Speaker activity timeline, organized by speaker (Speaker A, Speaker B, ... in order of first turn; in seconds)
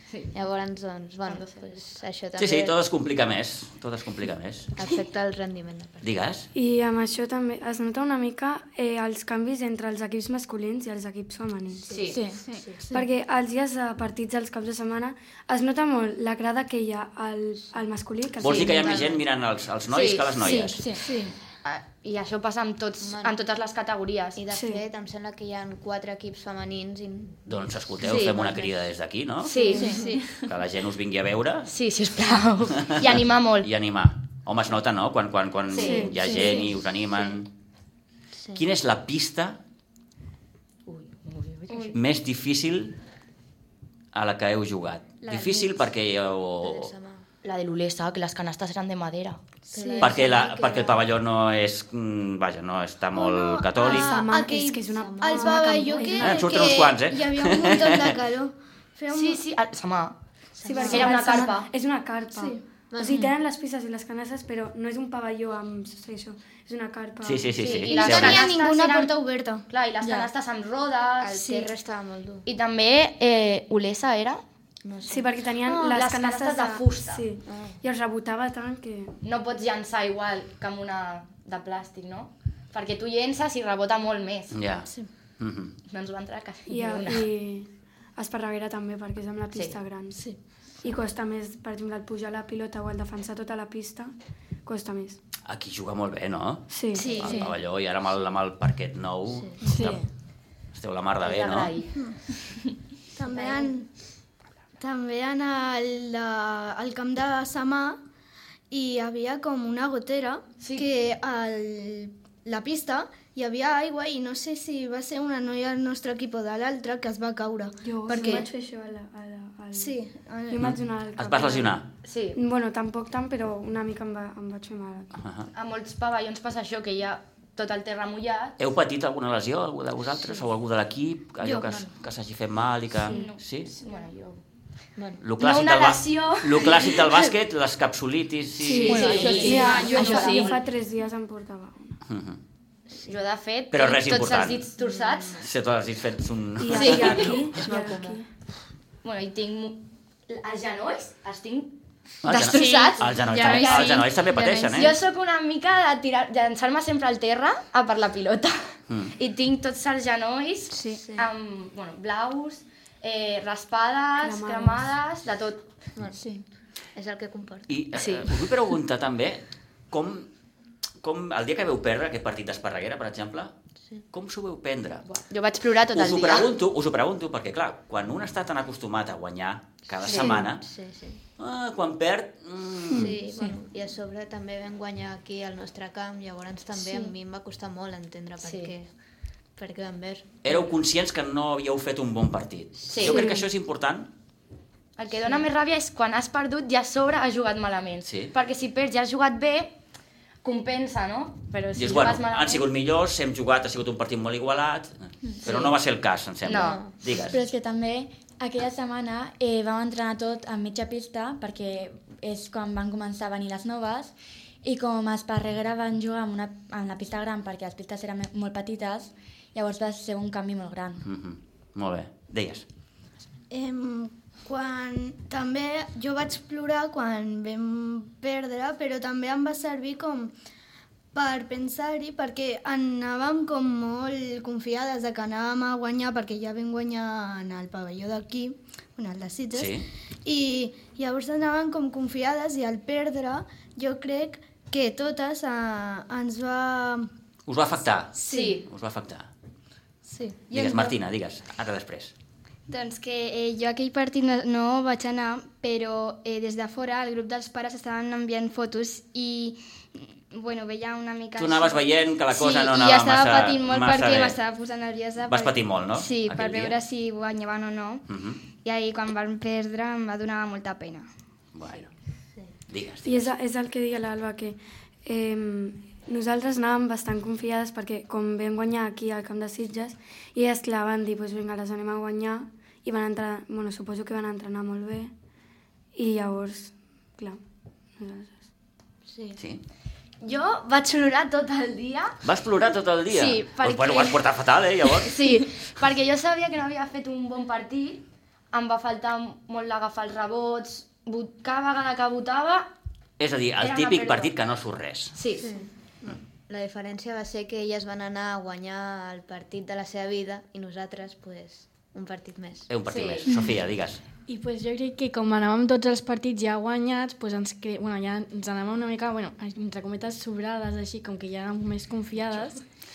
Speaker A: 0.3-2.8, 4.8-6.1, 11.8-12.8, 18.5-19.2, 23.0-23.4, 24.4-28.8, 29.6-30.2, 38.3-38.6, 45.3-45.7, 46.6-47.2, 49.7-51.1, 54.9-56.2, 60.6-61.2, 62.9-63.3, 71.2-72.5, 74.8-75.3, 77.4-77.8, 99.3-99.6, 131.5-131.9, 134.9-135.2, 144.8-145.5, 147.6-148.2, 160.9-161.3, 165.9-166.2, 166.9-167.8, 180.0-181.2, 182.9-188.9, 189.6-190.6, 206.5-206.9, 289.1-289.4, 305.4-312.7
Speaker B: 1.2-1.9, 11.9-12.2, 19.9-20.6, 21.6-24.4, 28.0-28.4, 29.4-30.1, 31.7-33.7, 35.7-36.1, 40.9-42.0, 47.4-49.4, 59.1-60.2, 60.9-61.7, 67.6-71.6, 72.4-74.4, 75.8-77.2, 79.2-84.5, 85.9-87.3, 101.2-102.1, 103.3-103.7, 110.6-110.9, 122.0-122.4, 125.5-128.6, 133.1-134.4, 135.4-137.3, 138.8-140.6, 143.0-145.4, 146.7-147.3, 149.0-154.1, 154.7-165.7, 167.9-168.3, 175.1-176.5, 180.0-180.4, 188.4-188.7, 192.9-193.3, 195.0-199.7, 200.4-202.7, 205.4-205.8, 206.4-206.8, 248.3-248.7, 290.2-292.2, 293.1-294.2, 295.0-302.7, 303.6-304.3, 305.1-305.5, 312.9-313.3
Speaker C: 2.4-4.7, 6.0-6.5, 18.4-20.8, 27.5-29.5, 30.4-31.7, 32.9-37.5, 38.5-39.6, 41.9-43.0, 44.1-46.9, 50.0-54.2, 56.2-58.2, 67.2-68.4, 84.5-84.9, 85.4-85.8, 95.5-100.0, 100.7-101.8, 120.6-121.9, 125.1-125.5, 128.6-133.7, 135.2-139.6, 142.1-142.4, 143.7-144.7, 145.4-147.7, 152.2-154.9, 158.9-159.1, 167.7-170.3, 171.0-173.5, 174.1-175.1, 175.9-180.7, 181.4-183.2, 190.4-194.1, 198.0-198.3, 201.7-207.4, 221.0-222.6, 239.5-239.9, 247.5-249.3, 250.5-252.1, 261.4-264.4, 265.2-266.8, 268.1-268.4, 271.5-271.9, 272.7-273.3, 289.4-289.6, 292.2-295.2, 303.2-305.1, 312.7-314.0
Speaker D: 6.5-11.9, 12.9-19.1, 24.5-24.8, 35.8-36.6, 53.8-56.7, 60.6-67.9, 75.1-79.1, 86.7-94.1, 94.6-95.2, 96.7-97.3, 99.6-100.0, 117.8-125.1, 138.6-142.0, 146.6-148.3, 164.2-164.9, 273.0-285.1, 285.9-287.4, 288.0-288.4
Speaker E: 12.1-12.6, 20.4-21.3, 29.8-30.3, 138.8-140.4, 207.3-221.1
Speaker F: 20.5-21.1, 29.7-30.3, 96.9-97.5, 152.3-154.9, 160.7-161.0, 252.7-268.1, 268.6-271.1
Speaker G: 49.7-50.1, 53.1-59.4, 60.8-61.4, 62.3-62.6, 67.9-69.7, 75.7-76.0, 103.1-103.9, 104.8-108.0, 108.7-118.5, 119.7-120.7, 131.5-131.8, 223.5-230.3, 231.1-247.1, 248.1-248.6, 250.1-250.9
Speaker H: 99.6-100.0, 314.2-322.6